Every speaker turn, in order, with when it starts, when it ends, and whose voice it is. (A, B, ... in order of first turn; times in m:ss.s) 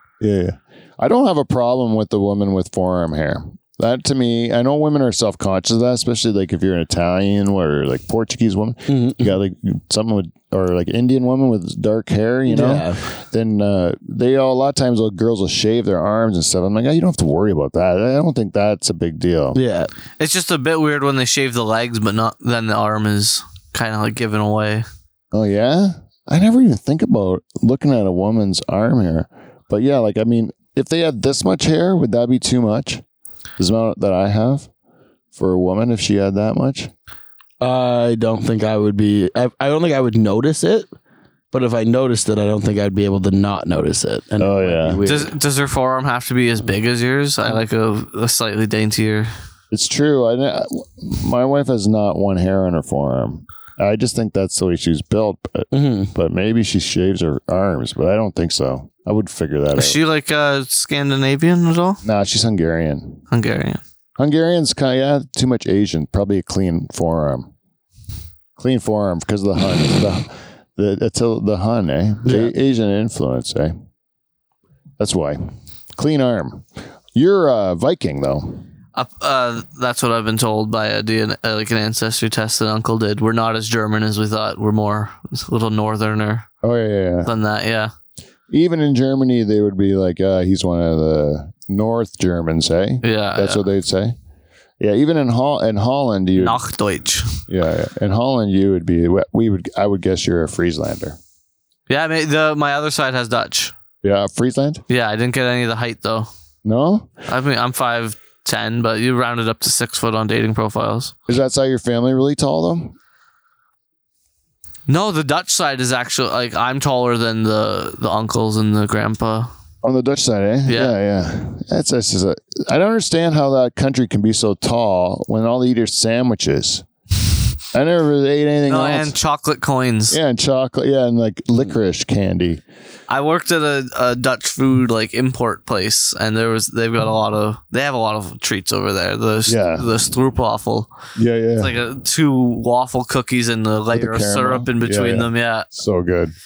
0:00.2-0:19.6 A
0:08.9-0:09.3 B
0:12.5-0:13.0 B
0:19.5-0:19.9 B
0:20.2-0:24.8 C
0:25.3-0:33.0 A
0:33.6-0:34.7 A
0:35.4-0:36.9 A
0:37.6-0:40.9 B
0:41.5-0:45.3 B
0:44.4-0:45.0 A
0:45.0-0:49.3 C
0:49.7-1:00.0 A
0:55.7-0:56.1 B
0:59.7-1:02.0 C
1:02.0-1:03.2 A
1:03.3-1:03.8 C
1:04.2-1:07.5 A
1:08.6-1:13.7 A
1:12.2-1:12.5 B
1:15.0-1:15.4 A
1:16.0-1:18.6 A
1:19.0-1:26.5 C
1:26.6-1:27.3 A
1:27.3-1:27.9 C
1:28.5-1:34.2 A
1:33.0-1:33.6 C
1:34.8-1:36.6 A
1:36.4-1:37.4 C
1:37.5-1:41.2 A
1:41.9-1:43.7 C
1:44.0-1:44.8 A
1:44.9-1:46.3 C
1:46.6-1:47.1 A
1:47.3-1:51.1 C
1:51.3-1:53.0 A
1:54.9-1:59.5 C
1:59.8-2:06.8 A
2:00.7-2:00.9 C
2:07.7-2:09.2 A
2:08.7-2:10.2 C
2:10.1-2:12.6 A
2:13.1-2:20.9 C
2:19.5-2:19.9 A
2:21.2-2:21.8 A
2:21.6-2:25.7 C
2:23.9-2:26.3 A